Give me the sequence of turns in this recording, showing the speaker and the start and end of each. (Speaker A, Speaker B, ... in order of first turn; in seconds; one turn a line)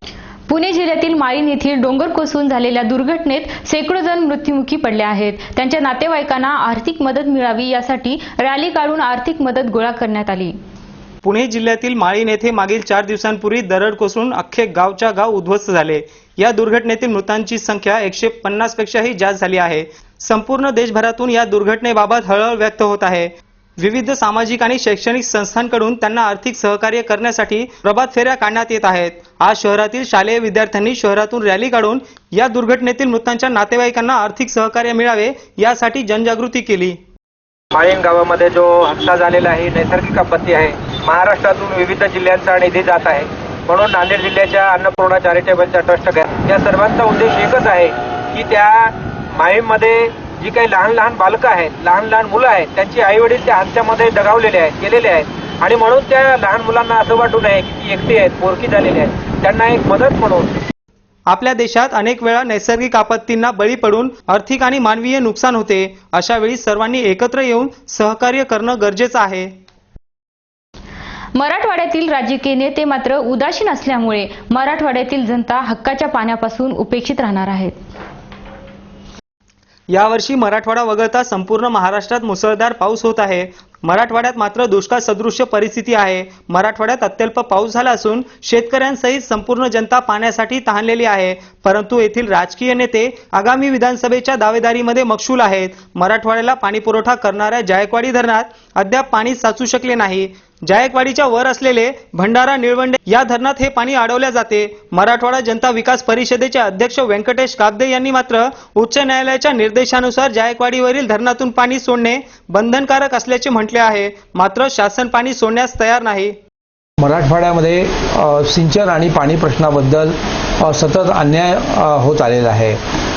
Speaker A: 0.5-10.6
Speaker B: 11.2-37.0
Speaker C: 37.7-60.5
Speaker B: 61.3-69.5
Speaker A: 71.4-77.8
Speaker B: 79.9-116.4
Speaker D: 117.0-122.8